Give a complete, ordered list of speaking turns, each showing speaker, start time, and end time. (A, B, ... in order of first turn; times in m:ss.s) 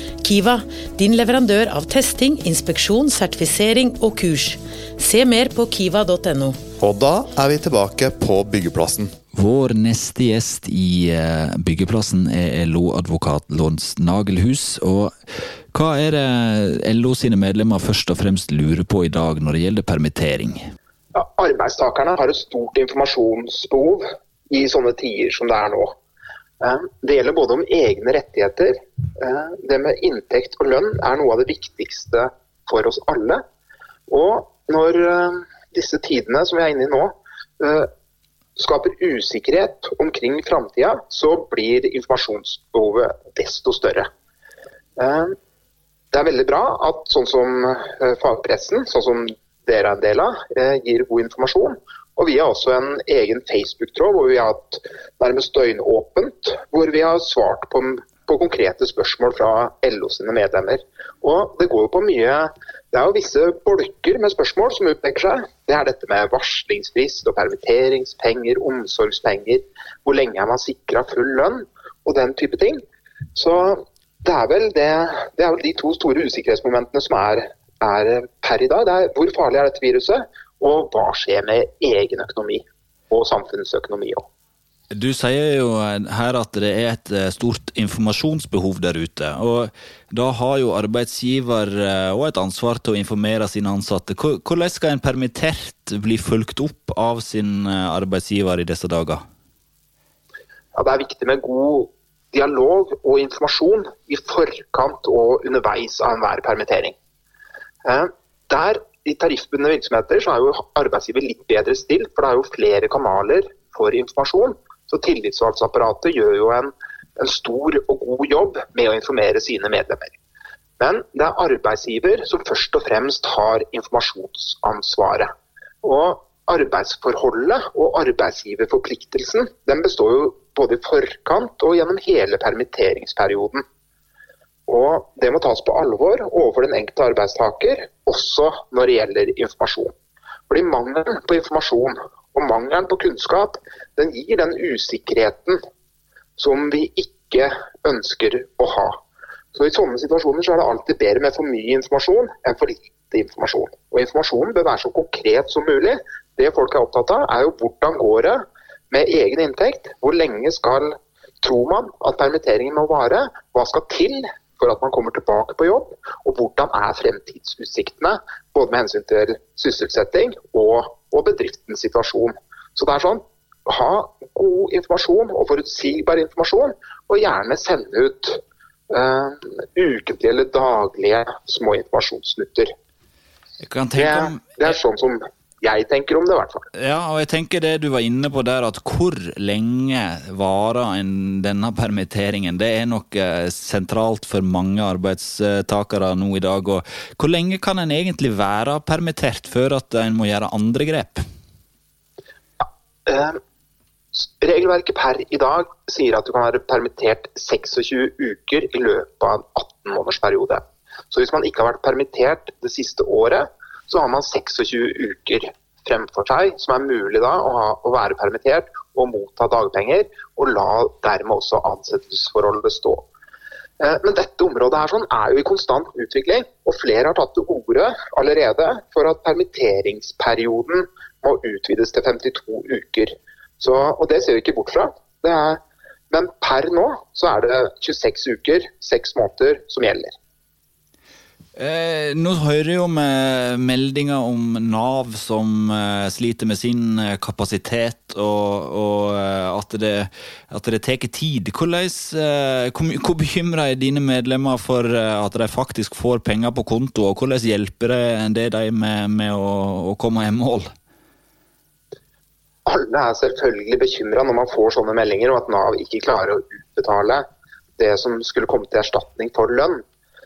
0:00.2-0:06.6 A
0:06.8-0:09.1 B
0:09.4-0:20.7 C
0:21.2-0:26.0 D
0:26.6-0:33.4 D
0:34.1-0:37.9 D
0:38.6-0:44.1 D
0:45.0-0:45.4 D
0:46.1-1:12.8 D
1:13.4-1:24.3 D
1:24.9-1:39.2 C
1:40.8-1:47.0 D
1:47.8-2:00.2 D
2:00.8-2:13.6 D
2:14.7-2:19.9 D
2:20.5-2:25.6 D
2:26.4-2:29.0 D
2:29.5-3:02.7 D
3:03.6-3:04.7 C
3:04.0-3:06.7 D
3:06.8-3:21.2 C
3:23.1-3:23.4 D
3:24.2-3:43.1 D
3:43.8-3:55.6 D
3:56.1-4:00.1 D
4:01.6-4:20.7 C
4:22.7-4:27.2 D
4:27.8-4:29.8 D